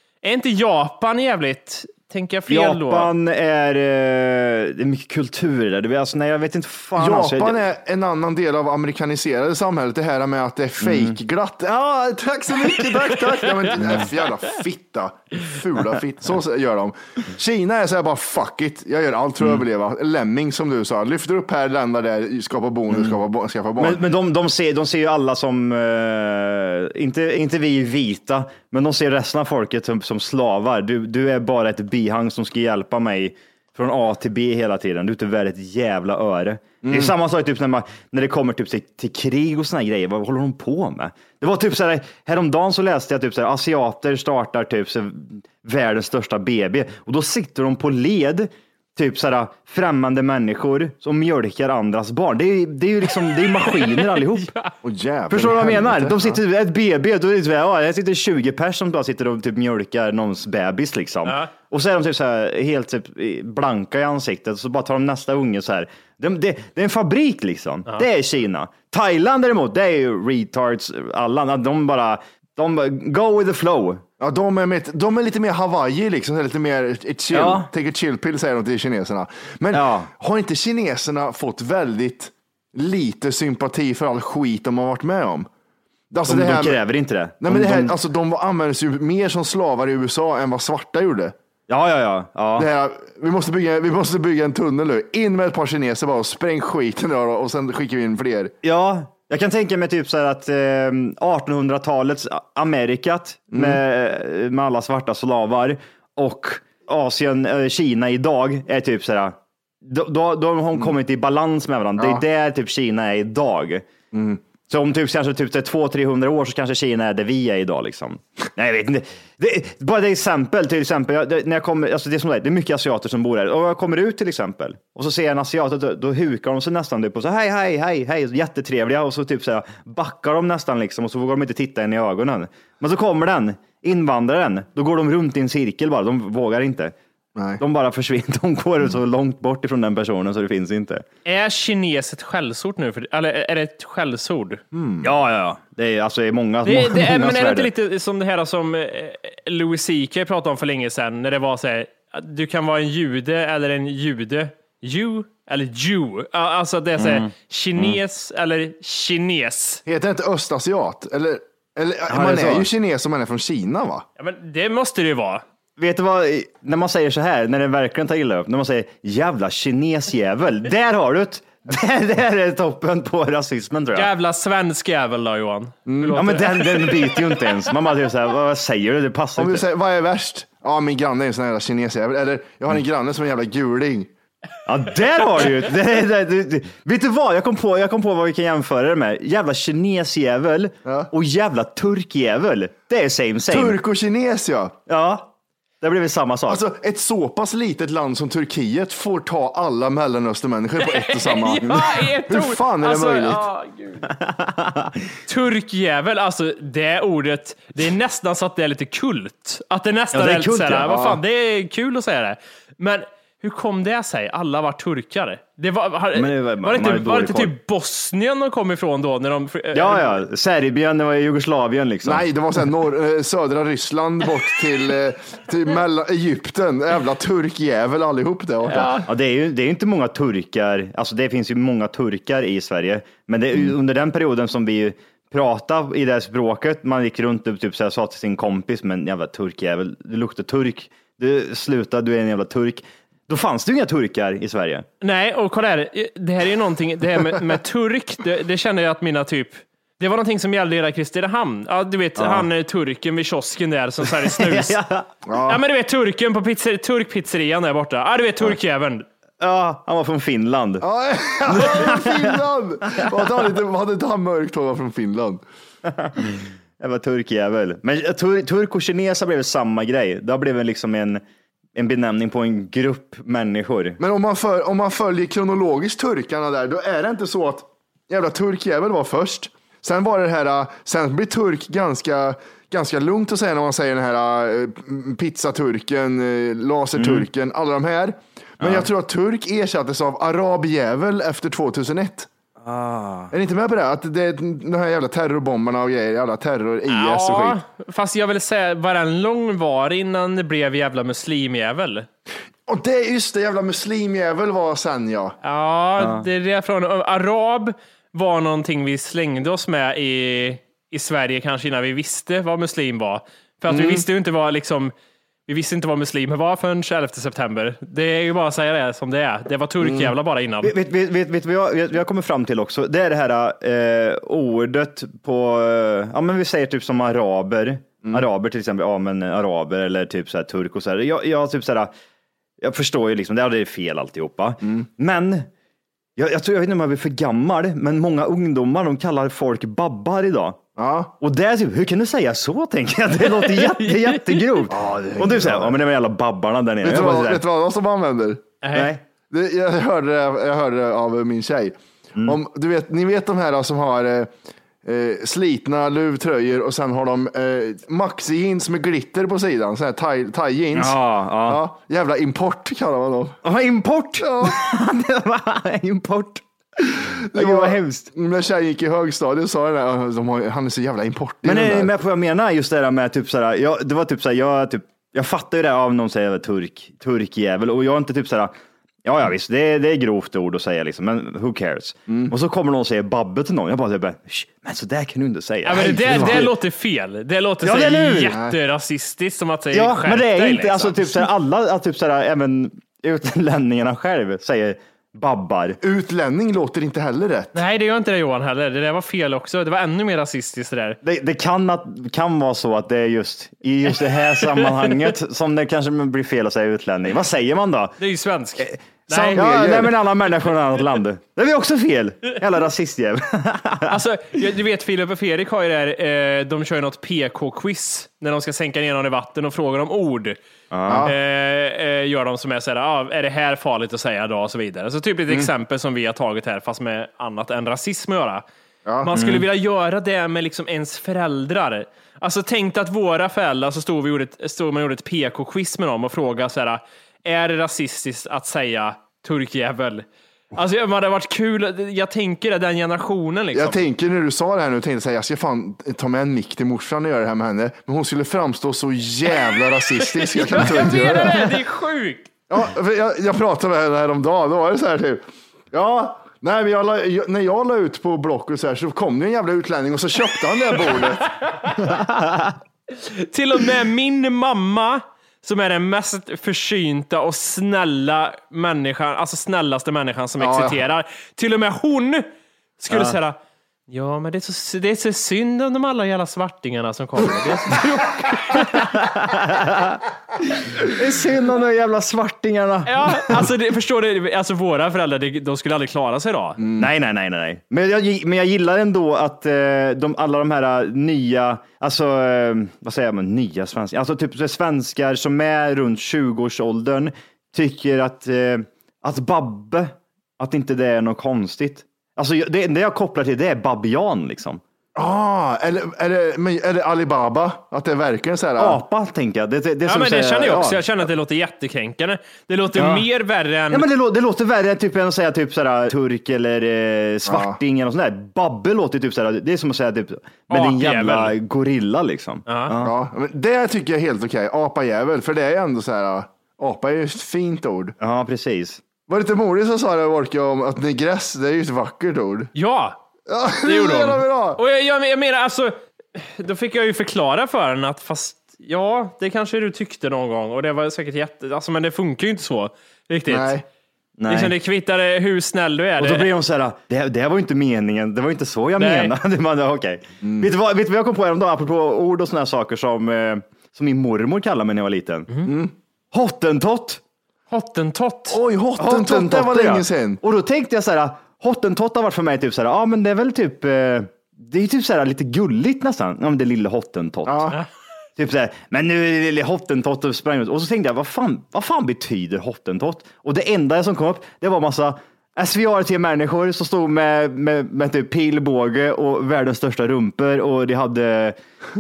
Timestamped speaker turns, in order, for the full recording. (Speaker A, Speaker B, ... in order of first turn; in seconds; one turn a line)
Speaker A: 0.2-3.1
Speaker B: 2.5-7.6
Speaker C: 7.0-24.0
Speaker B: 10.8-11.2
Speaker B: 13.8-14.1
Speaker B: 22.9-23.2
Speaker B: 23.8-54.5
Speaker C: 36.8-37.1
Speaker A: 53.7-54.7
Speaker C: 54.8-56.4
Speaker B: 55.3-74.0
Speaker A: 61.2-61.5
Speaker C: 74.2-85.5
Speaker B: 77.3-77.7
Speaker B: 79.7-80.1
Speaker C: 86.1-86.8
Speaker B: 86.3-88.0
Speaker C: 87.4-91.3
Speaker B: 91.7-92.7
Speaker C: 92.6-98.5
Speaker B: 98.6-113.8
Speaker C: 103.5-103.8
Speaker C: 114.1-114.4
Speaker B: 114.7-136.9
Speaker C: 137.4-137.6
Speaker B: 137.6-141.1
Speaker A: 141.2-144.6
Speaker C: 144.7-145.1
Speaker B: 145.0-147.7
Speaker A: 146.6-159.8
Speaker B: 157.0-158.0
Speaker C: 159.8-164.1
Speaker B: 162.1-162.7
Speaker A: 164.2-165.4
Speaker B: 165.8-174.1
Speaker A: 173.9-177.3
Speaker C: 175.9-176.2
Speaker B: 176.1-179.7
Speaker C: 179.4-184.1
Speaker B: 184.7-193.8
Speaker C: 193.5-194.8
Speaker B: 194.9-196.6
Speaker C: 196.5-203.4
Speaker A: 200.8-204.1
Speaker B: 204.1-205.0
Speaker A: 205.3-220.2
Speaker B: 210.1-211.0
Speaker C: 210.9-211.2
Speaker B: 216.1-217.6
Speaker B: 219.7-222.3
Speaker C: 222.0-229.0
Speaker A: 228.7-229.1
Speaker B: 229.1-244.9
Speaker A: 245.0-254.8
Speaker B: 252.2-252.5
Speaker B: 254.0-255.1
Speaker C: 255.3-255.6
Speaker A: 255.5-259.1
Speaker B: 259.4-260.9
Speaker C: 260.8-265.4
Speaker B: 261.4-262.4
Speaker B: 262.9-263.4
Speaker B: 265.9-271.2
Speaker B: 271.8-274.0
Speaker C: 274.0-292.3
Speaker B: 286.9-287.3
Speaker B: 288.6-288.9
Speaker B: 292.6-293.3
Speaker C: 293.3-297.6
Speaker A: 296.9-302.1
Speaker C: 302.7-305.4
Speaker A: 305.4-314.9
Speaker B: 306.0-306.3
Speaker C: 313.7-314.0
Speaker A: 315.5-320.7
Speaker C: 319.8-320.1
Speaker B: 320.6-331.9
Speaker B: 332.6-335.5
Speaker B: 336.1-340.6
Speaker C: 340.8-341.1
Speaker B: 341.2-347.4
Speaker A: 343.4-344.6
Speaker C: 344.7-345.8
Speaker C: 346.8-348.5
Speaker A: 348.6-348.9
Speaker B: 348.7-349.0
Speaker C: 349.3-354.3
Speaker C: 354.8-363.4
Speaker B: 360.7-361.6
Speaker B: 363.4-368.1
Speaker C: 364.2-364.6
Speaker C: 366.9-371.9
Speaker B: 371.4-386.5
Speaker C: 382.1-382.3
Speaker A: 385.6-391.0
Speaker C: 385.7-386.5
Speaker B: 387.6-388.4
Speaker C: 388.3-388.6
Speaker B: 389.7-395.8
Speaker C: 395.8-397.5
Speaker A: 397.5-401.0
Speaker B: 401.0-408.0
Speaker A: 408.0-409.4
Speaker C: 409.1-410.0
Speaker B: 409.3-414.0
Speaker A: 413.9-420.4
Speaker B: 420.7-421.1
Speaker C: 420.9-421.1
Speaker A: 421.0-428.4
Speaker C: 428.9-429.1
Speaker A: 429.0-443.8
Speaker B: 429.1-429.5
Speaker C: 443.5-451.4
Speaker A: 450.1-452.3
Speaker C: 452.5-461.6
Speaker A: 461.4-461.8
Speaker B: 462.0-462.4
Speaker A: 462.9-472.3
Speaker C: 470.4-470.8
Speaker A: 472.8-473.4
Speaker B: 472.9-473.1
Speaker A: 473.9-479.0
Speaker B: 478.6-480.0
Speaker B: 480.6-483.5
Speaker A: 482.9-486.6
Speaker C: 486.6-486.9
Speaker B: 486.8-504.6
Speaker C: 504.9-508.8
Speaker B: 508.6-511.0
Speaker A: 509.9-513.9
Speaker B: 512.8-513.1
Speaker B: 513.7-523.0
Speaker C: 517.3-517.6
Speaker A: 520.5-521.4
Speaker A: 522.5-522.7
Speaker C: 522.8-528.0
Speaker B: 528.0-528.8
Speaker C: 529.1-532.5
Speaker A: 532.5-533.0
Speaker C: 533.3-534.6
Speaker A: 533.6-543.6
Speaker C: 543.3-543.6
Speaker B: 544.2-544.5
Speaker A: 544.3-546.3
Speaker B: 546.0-555.3
Speaker A: 548.8-549.1
Speaker C: 550.2-550.5
Speaker C: 555.4-555.7
Speaker B: 556.1-557.0
Speaker A: 557.5-558.4
Speaker C: 558.3-560.2
Speaker B: 558.8-567.5
Speaker C: 567.2-567.6
Speaker B: 568.2-581.4